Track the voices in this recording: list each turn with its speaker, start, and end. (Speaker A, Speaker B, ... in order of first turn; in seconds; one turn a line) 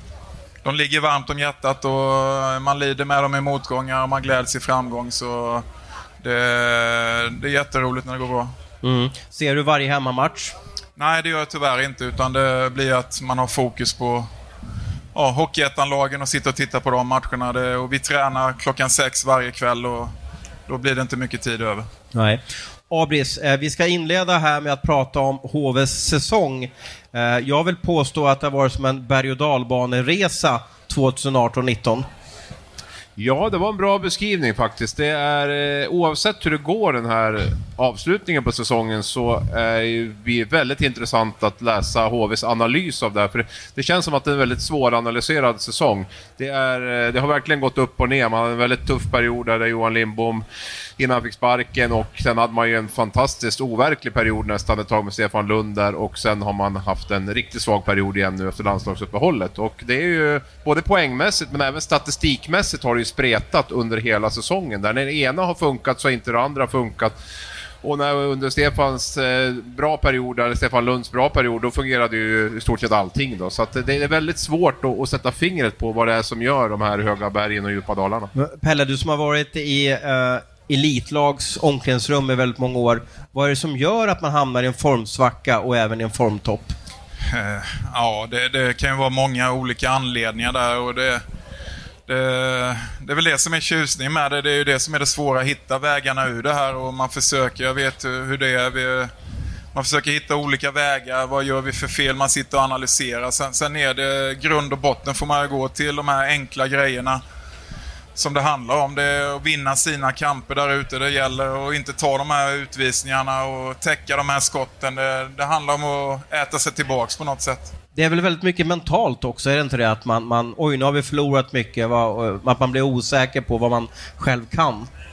Speaker A: 0.6-5.6
Speaker A: 6.2-8.5
Speaker B: 8.8-10.5
Speaker A: 11.0-14.3
Speaker A: 15.1-20.1
Speaker A: 20.7-21.9
Speaker B: 22.1-32.0
Speaker C: 33.2-50.4
Speaker C: 51.0-67.1
Speaker C: 67.8-78.3
Speaker B: 78.3-86.7
Speaker A: 87.3-91.2
Speaker A: 92.1-99.1
Speaker A: 99.7-107.2
Speaker A: 108.2-117.7
Speaker B: 117.9-124.9